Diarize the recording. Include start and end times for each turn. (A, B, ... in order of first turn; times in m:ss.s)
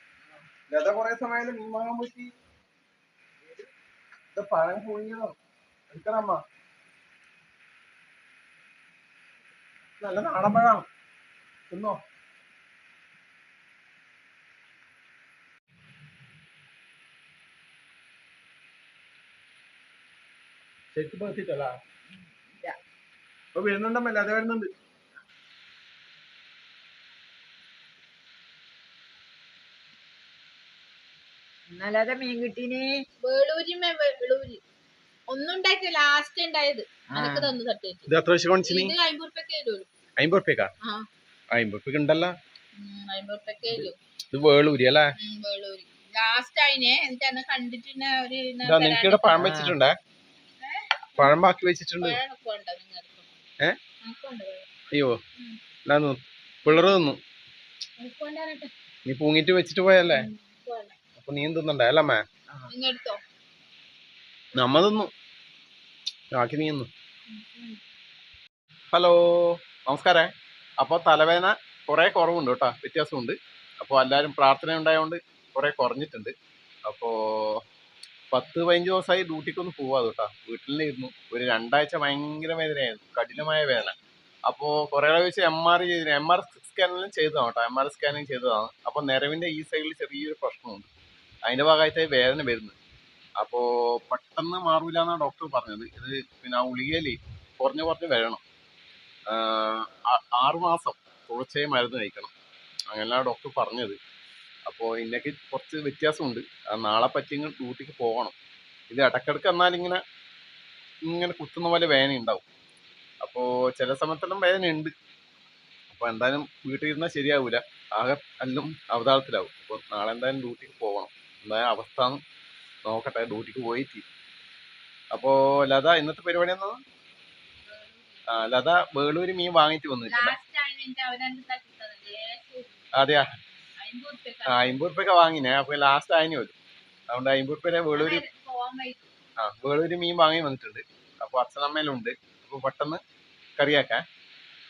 0:00.7-0:02.3 A
0:04.3-0:05.3 A
0:05.9-0:06.4 A
0:10.0-0:10.8 A
0:11.7-0:12.0 A
0:20.9-0:21.7 A
0:22.1-0:22.7 B
0:23.5-0:24.7 A
0:31.7-0:33.0 B
0:33.2-0:34.6 C
0:35.3-0:39.9 C
0:37.1-0:37.5 B
0:38.1-0:38.9 A
0:40.2-0:40.7 A
0:41.5-0:42.3 A
0:42.7-0:43.9 C
0:44.3-0:45.1 A
0:45.2-0:49.5 C
0:48.6-0:50.0 A
0:49.4-0:49.8 B
0:50.6-0:51.4 C
0:51.1-0:52.2 A
0:52.0-0:53.3 C
0:54.0-0:54.7 C
0:54.9-0:55.2 A
0:55.8-0:57.2 A
0:58.0-0:58.7 C
0:59.0-1:00.3 A
1:00.1-1:01.0 C
1:01.2-1:02.2 A
1:02.7-1:03.2 C
1:04.6-1:05.1 A
1:06.3-1:06.9 A
1:07.3-1:07.8 C
1:08.9-1:16.3 A
1:16.8-1:17.6 A
1:18.3-1:23.9 A
1:24.5-1:30.9 A
1:31.4-1:32.8 A
1:33.4-1:38.4 A
1:39.3-1:42.3 A
1:42.9-1:44.0 A
1:44.7-1:48.3 A
1:48.9-1:50.0 A
1:51.0-1:52.4 A
1:53.2-1:54.9 A
1:55.9-2:02.2 A
2:02.8-2:04.0 A
2:05.1-2:06.8 A
2:07.6-2:08.5 C
2:08.3-2:10.4 A
2:10.1-2:14.8 C
2:13.0-2:13.3 A
2:14.5-2:16.5 A
2:17.1-2:18.2 A
2:17.9-2:19.1 C
2:19.4-2:23.0 A
2:23.6-2:24.0 A